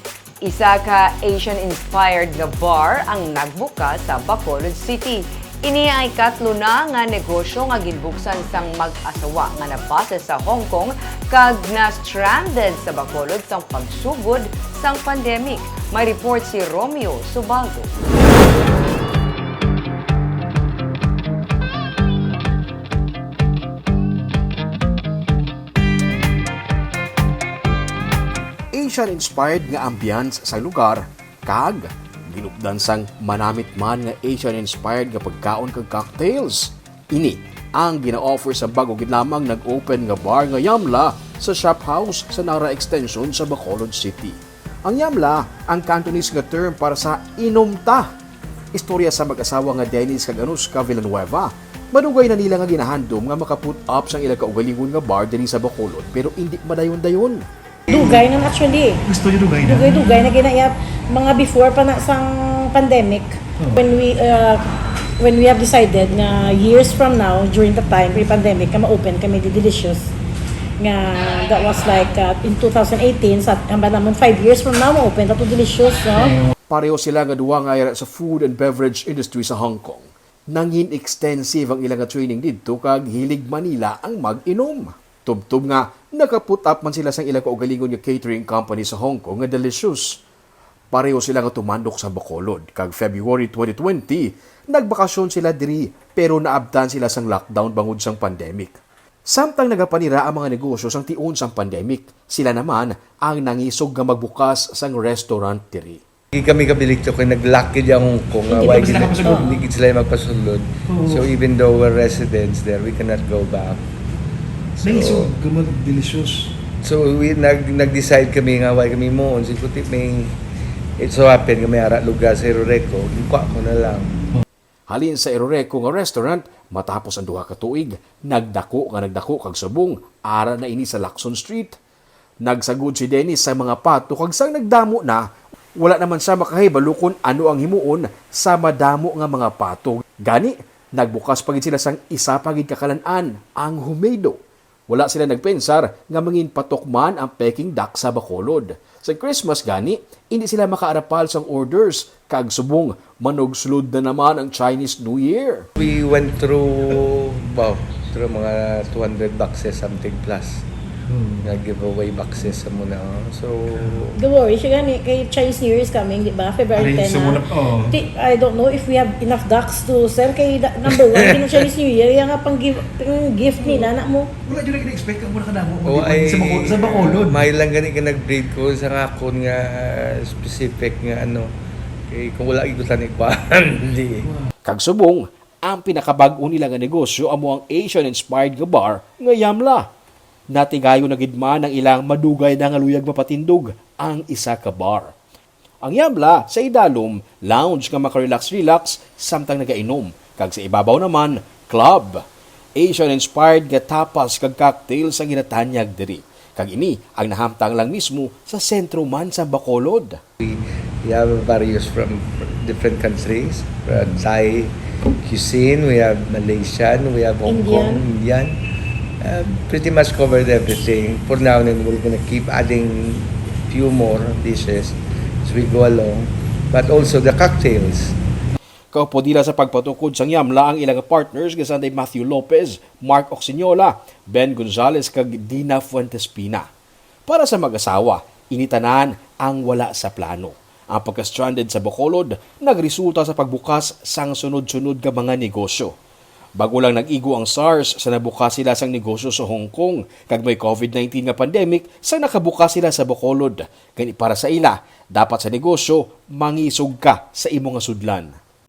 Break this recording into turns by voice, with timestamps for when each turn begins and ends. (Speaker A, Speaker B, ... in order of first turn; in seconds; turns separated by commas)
Speaker A: 0.4-17.9, Speaker B: 28.7-48.1, Speaker B: 48.7-57.5, Speaker C: 57.9-59.0, Speaker D: 59.1-60.0, Speaker C: 59.6-64.6, Speaker C: 65.2-70.1, Speaker C: 70.8-76.4, Speaker B: 76.7-90.2, Speaker B: 90.9-98.7, Speaker B: 99.2-106.0, Speaker E: 106.3-113.8, Speaker C: 108.5-109.6, Speaker D: 108.5-109.6, Speaker D: 110.9-111.3, Speaker D: 114.8-116.5, Speaker E: 114.8-115.3, Speaker E: 116.8-120.3, Speaker E: 121.0-124.1, Speaker B: 124.9-131.8, Speaker B: 132.4-135.2, Speaker B: 135.8-144.4, Speaker B: 144.9-155.7, Speaker E: 155.8-160.6, Speaker D: 161.1-161.5, Speaker E: 161.4-164.2, Speaker C: 164.2-174.3, Speaker D: 166.8-167.9, Speaker E: 170.9-171.7, Speaker D: 173.6-173.9, Speaker D: 174.4-177.5, Speaker E: 175.9-181.5, Speaker E: 182.1-184.3, Speaker B: 184.7-189.9, Speaker B: 190.5-195.1, Speaker B: 195.8-202.2, Speaker B: 202.8-210.2, Speaker E: 210.4-214.7, Speaker E: 215.2-218.6, Speaker C: 217.4-218.1, Speaker E: 219.2-228.2, Speaker B: 228.9-236.7, Speaker B: 237.3-245.9, Speaker B: 246.6-258.4